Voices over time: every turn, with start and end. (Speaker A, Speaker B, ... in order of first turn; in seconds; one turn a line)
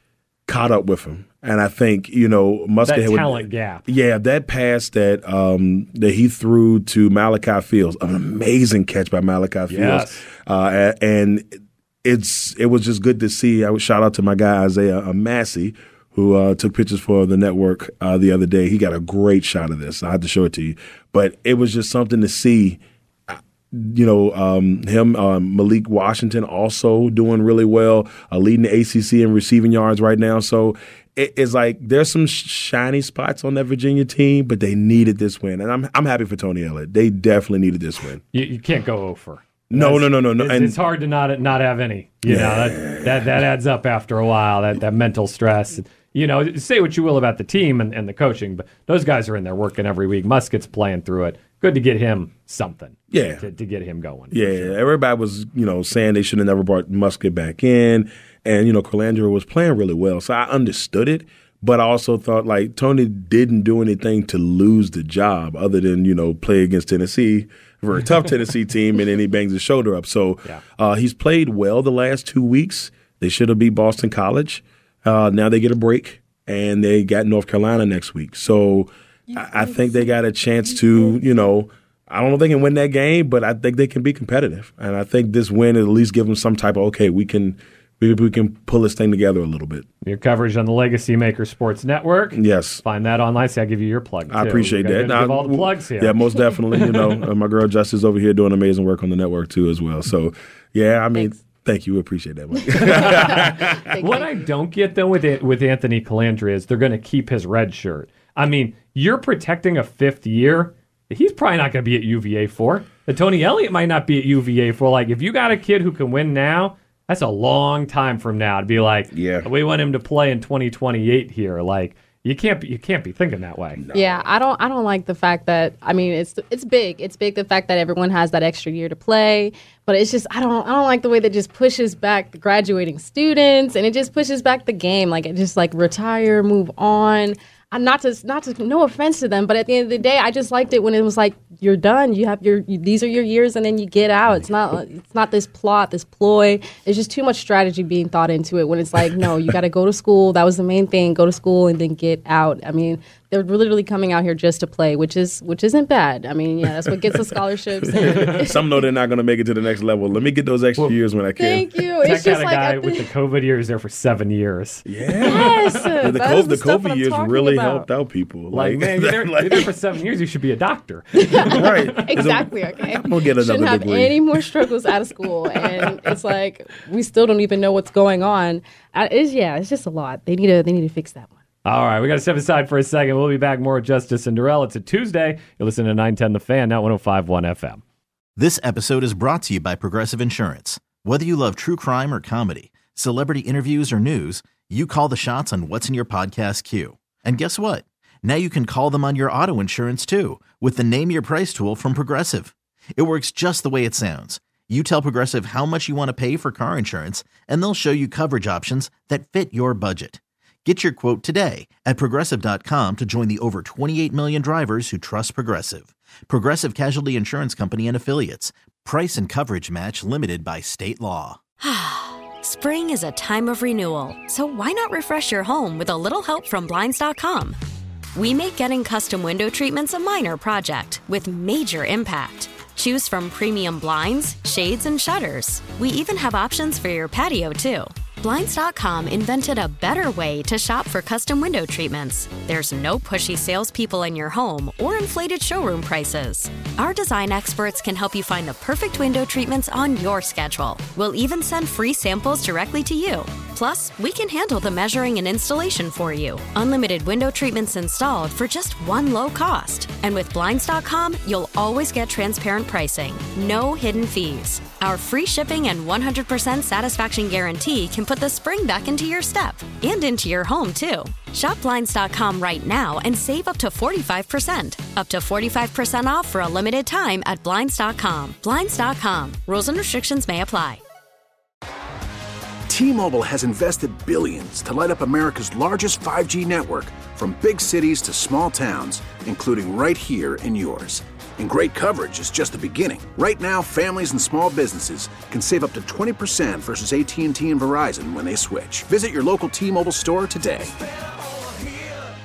Speaker A: 0.5-11.5
Speaker B: 2.8-3.9
Speaker B: 9.7-10.2
Speaker A: 12.0-38.2
Speaker B: 38.3-54.8
Speaker A: 39.7-40.8
Speaker A: 42.3-43.2
Speaker A: 53.1-53.5
Speaker A: 54.3-89.8
Speaker B: 90.0-96.2
Speaker A: 92.3-92.8
Speaker A: 94.3-103.8
Speaker B: 96.7-97.2
Speaker C: 101.1-101.4
Speaker B: 102.8-123.8
Speaker C: 102.8-104.5
Speaker A: 119.1-119.5
Speaker A: 123.8-124.3
Speaker C: 123.9-158.7
Speaker A: 157.9-161.7
Speaker C: 161.4-163.1
Speaker B: 162.0-165.5
Speaker A: 164.9-169.7
Speaker C: 165.2-167.9
Speaker B: 168.5-172.0
Speaker C: 171.2-181.3
Speaker A: 171.5-174.6
Speaker B: 181.7-187.8
Speaker D: 188.4-221.4
Speaker E: 221.6-227.6
Speaker E: 228.2-280.8
Speaker F: 282.7-300.7